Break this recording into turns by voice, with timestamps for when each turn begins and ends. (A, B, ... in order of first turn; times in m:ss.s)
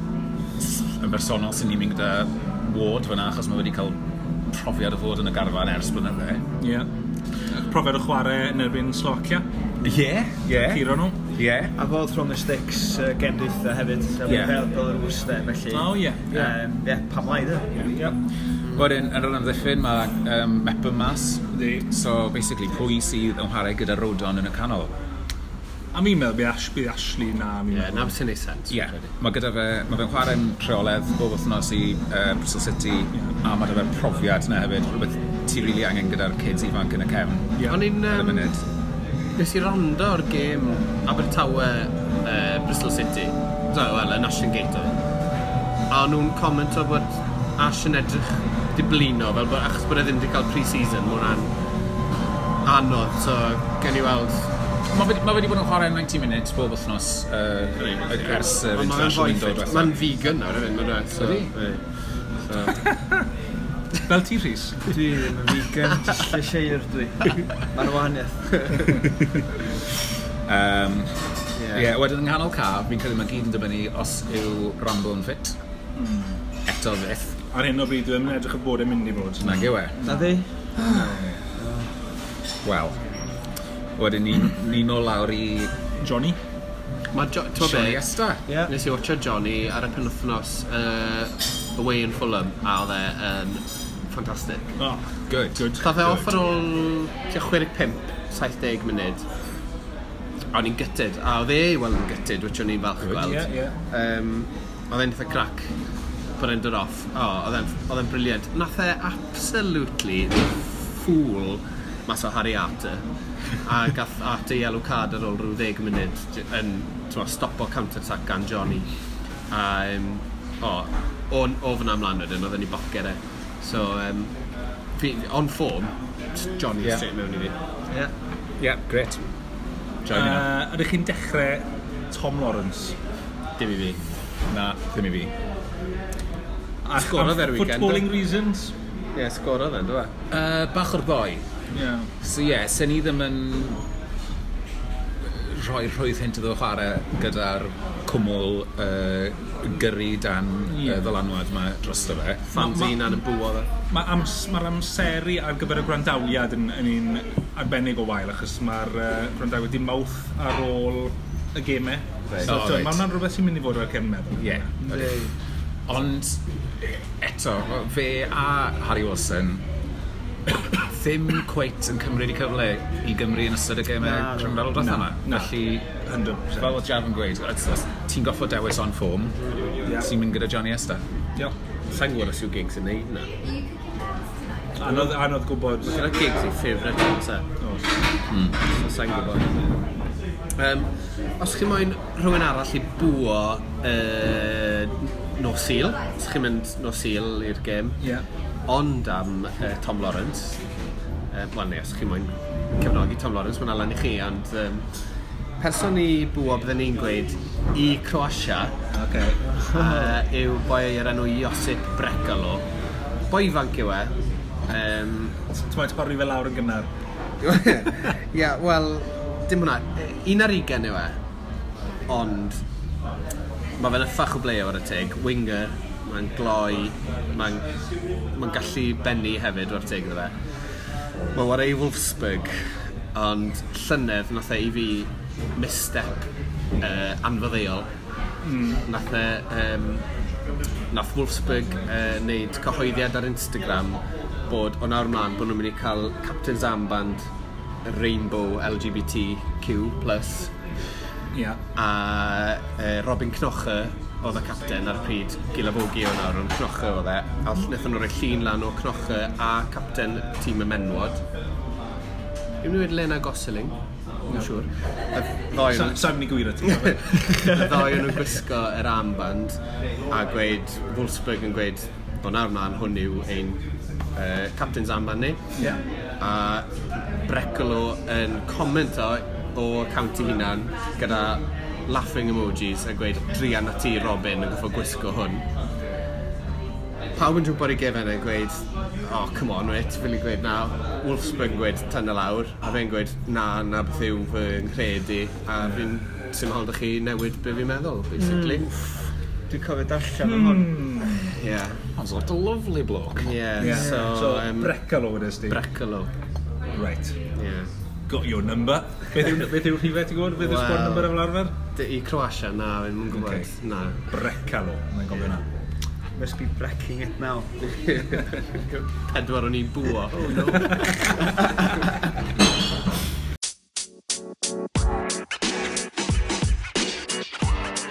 0:00.6-0:06.4 A
0:06.6-0:06.9 B
0:07.5-0:09.4 B
0:09.8-0:11.7 A
0:10.5-0:11.2 B
0:11.8-0:18.0 C
0:14.2-0:14.6 A
0:15.7-0:16.6 B
0:17.8-0:18.2 B
0:18.6-0:18.9 D
0:18.7-0:24.9 A
0:21.5-0:21.9 B
0:25.9-0:28.1 B
0:27.7-0:29.1 D
0:28.7-0:38.6 A
0:37.6-0:38.6 D
0:39.4-0:45.0 D
0:45.9-0:51.5 D
0:52.6-0:54.5 D
0:54.9-1:00.0 A
0:57.8-1:02.8 D
1:01.2-1:01.5 A
1:02.8-1:03.2 B
1:04.1-1:04.9 B
1:04.8-1:09.0 C
1:10.4-1:11.2 A
1:11.6-1:11.9 D
1:11.7-1:15.6 A
1:16.0-1:16.4 B
1:16.7-1:17.4 A
1:17.5-1:21.4 B
1:19.4-1:20.0 A
1:20.0-1:21.9 C
1:22.6-1:23.0 A
1:24.0-1:25.7 A
1:26.0-1:26.4 B
1:27.1-1:34.8 D
1:27.6-1:28.4 A
1:28.5-1:28.7 C
1:34.8-1:35.9 B
1:35.3-1:36.3 A
1:35.8-1:39.3 D
1:40.5-2:08.1 D
1:43.0-1:43.4 A
1:43.2-1:43.7 B
2:08.6-2:09.2 A
2:10.0-2:10.5 A
2:10.1-2:12.9 B
2:13.6-2:14.0 D
2:14.5-2:15.3 A
2:16.8-2:18.7 B
2:17.0-2:18.1 D
2:19.2-2:20.1 D
2:20.3-2:21.5 A
2:21.7-2:22.1 B
2:22.2-2:23.8 A
2:25.2-2:32.6 A
2:30.7-2:31.1 B
2:32.5-2:33.7 D
2:32.6-2:33.2 B
2:33.9-2:44.7 B
2:42.3-2:43.0 A
2:44.4-2:45.3 A
2:44.8-2:45.3 C
2:45.9-2:49.6 A
2:50.7-2:55.9 A
2:54.0-2:54.7 C
2:54.8-2:56.8 B
2:56.6-3:01.0 A
2:59.8-3:00.1 B
3:01.9-3:03.3 D
3:04.8-3:06.0 B
3:04.9-3:05.1 D
3:05.8-3:07.5 D
3:07.6-3:07.9 B
3:08.3-3:08.6 A
3:08.7-3:09.5 D
3:10.6-3:18.1 D
3:18.7-3:20.6 D
3:21.3-3:25.0 D
3:25.6-3:28.7 D
3:28.9-3:29.5 B
3:29.6-3:30.1 C
3:29.7-3:32.7 D
3:33.3-3:34.2 D
3:34.7-3:35.4 D
3:35.6-3:36.9 B
3:37.4-3:41.2 D
3:42.1-3:42.6 D
3:43.8-3:47.8 D
3:48.3-3:57.9 D
3:58.4-3:58.8 B
3:58.9-4:00.0 D
4:00.9-4:07.2 D
4:07.8-4:10.5 D
4:11.3-4:11.6 B
4:11.8-4:21.2 D
4:22.6-4:36.7 D
4:25.7-4:27.6 B
4:37.2-4:45.4 D
4:47.2-4:58.7 D
4:55.6-4:55.9 B
4:58.2-4:58.7 C
4:59.5-5:00.8 C
5:00.2-5:01.3 B
5:01.3-5:01.8 D
5:02.0-5:03.4 A
5:03.2-5:04.8 D
5:03.6-5:04.1 C
5:03.6-5:05.6 B
5:05.5-5:06.1 D
5:06.7-5:07.2 B
5:07.4-5:07.7 D
5:08.1-5:11.5 B
5:10.4-5:11.2 D
5:11.7-5:14.0 D
5:13.1-5:13.5 B
5:14.1-5:15.4 B
5:16.2-5:17.6 C
5:17.6-5:21.4 D
5:20.3-5:21.2 B